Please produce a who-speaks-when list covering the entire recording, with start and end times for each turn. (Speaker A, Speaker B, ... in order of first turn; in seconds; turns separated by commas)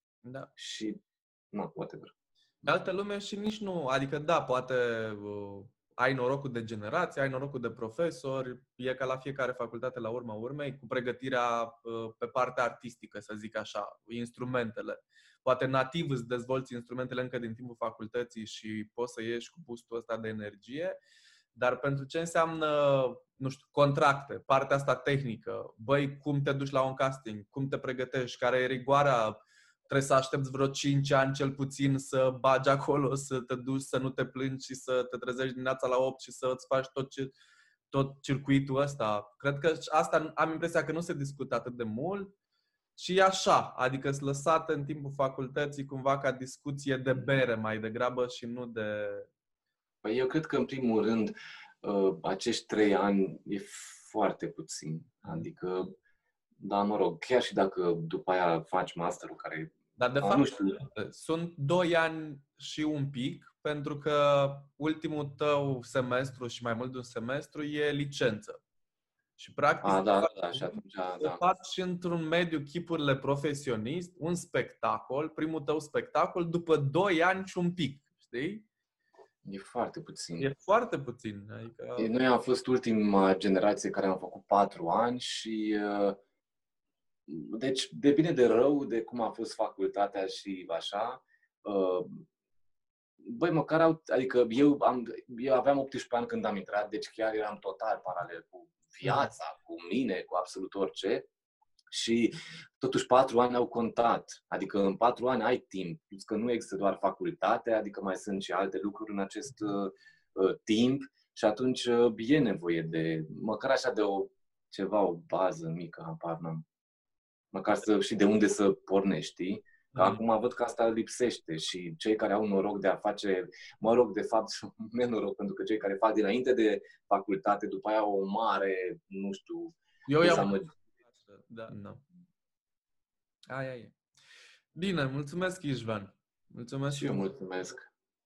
Speaker A: 0.2-0.5, Speaker B: 0.6-1.0, Speaker B: 1.5-2.1, Speaker A: 2.6-21.0, Speaker A: 21.5-37.4, Speaker A: 37.9-42.3, Speaker A: 43.0-49.3, Speaker B: 50.0-55.9, Speaker B: 56.6-60.8, Speaker A: 60.0-68.6, Speaker A: 69.4-78.6, Speaker B: 69.8-71.4, Speaker B: 79.4-80.5, Speaker A: 80.4-82.1, Speaker B: 82.0-86.2, Speaker B: 87.3-92.2, Speaker B: 93.2-101.3, Speaker A: 99.0-99.3, Speaker B: 101.9-116.6, Speaker B: 117.5-130.7, Speaker A: 119.9-120.2, Speaker A: 130.1-132.0, Speaker A: 133.5-134.0, Speaker A: 134.7-137.3, Speaker B: 136.9-137.9